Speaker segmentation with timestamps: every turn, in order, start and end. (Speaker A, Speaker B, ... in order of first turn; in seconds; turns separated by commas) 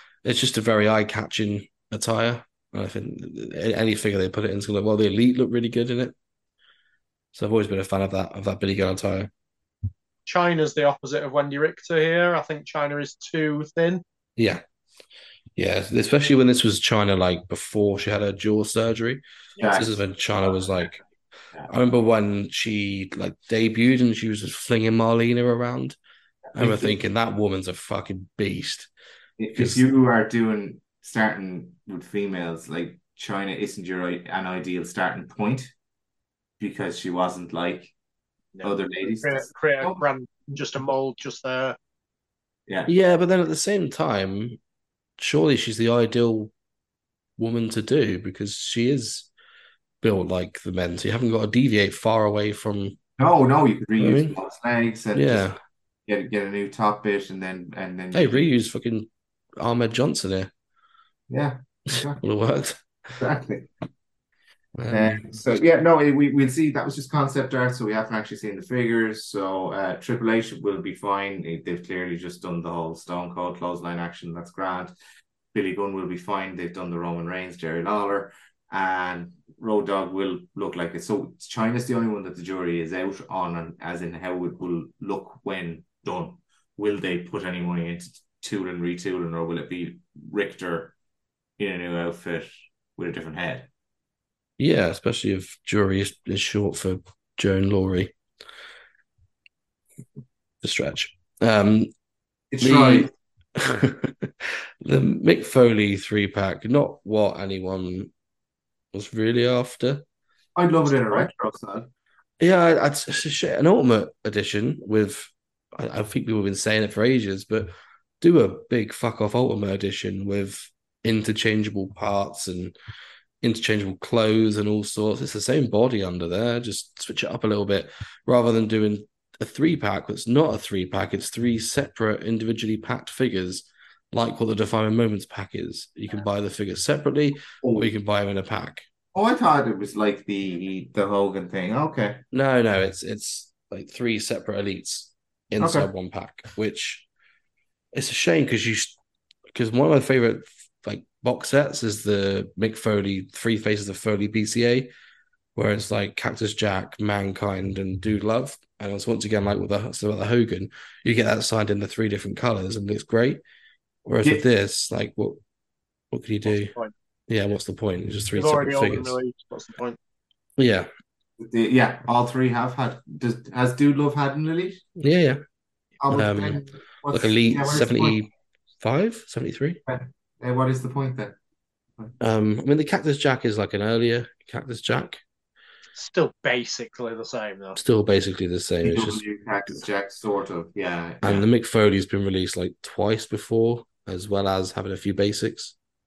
Speaker A: 0.2-6.1, Speaker A: 7.3-9.3, Speaker B: 10.2-14.0, Speaker A: 14.4-14.6, Speaker A: 15.6-21.0, Speaker B: 19.6-19.8, Speaker C: 19.6-19.9, Speaker A: 21.7-26.0, Speaker C: 26.5-27.0, Speaker A: 26.5-28.9, Speaker C: 29.4-35.7, Speaker A: 29.5-29.8, Speaker C: 36.6-37.9, Speaker B: 38.5-41.8, Speaker C: 38.6-40.0, Speaker A: 42.9-44.6, Speaker A: 45.2-46.5, Speaker A: 47.4-49.3, Speaker A: 50.0-53.0, Speaker C: 53.2-55.5, Speaker A: 54.0-54.4, Speaker A: 55.1-55.5, Speaker C: 56.1-58.4, Speaker A: 58.1-60.5, Speaker C: 61.3-62.2, Speaker A: 62.0-62.8, Speaker C: 63.2-63.7, Speaker A: 64.8-65.2, Speaker C: 64.9-74.9, Speaker C: 75.5-90.9, Speaker C: 91.6-93.7, Speaker A: 94.6-98.1, Speaker A: 100.6-101.9, Speaker C: 102.5-103.1, Speaker A: 102.6-108.1, Speaker A: 108.9-110.0, Speaker C: 110.5-111.9, Speaker A: 112.4-122.7, Speaker A: 123.4-138.8, Speaker C: 137.6-137.9, Speaker C: 139.1-142.2, Speaker A: 142.3-147.1, Speaker C: 145.6-145.9, Speaker A: 147.9-148.9, Speaker A: 149.5-154.9, Speaker A: 155.6-163.4, Speaker A: 164.0-165.4, Speaker A: 166.1-166.7, Speaker A: 167.3-169.2, Speaker B: 168.3-170.0, Speaker A: 170.6-170.9, Speaker C: 171.4-174.8, Speaker A: 175.0-175.4, Speaker C: 176.0-178.2, Speaker A: 176.1-176.6, Speaker A: 177.1-178.3, Speaker A: 178.8-179.8, Speaker C: 179.9-181.3, Speaker A: 182.2-185.2, Speaker B: 185.9-187.8, Speaker A: 187.8-189.2, Speaker C: 188.8-191.4, Speaker A: 191.2-195.7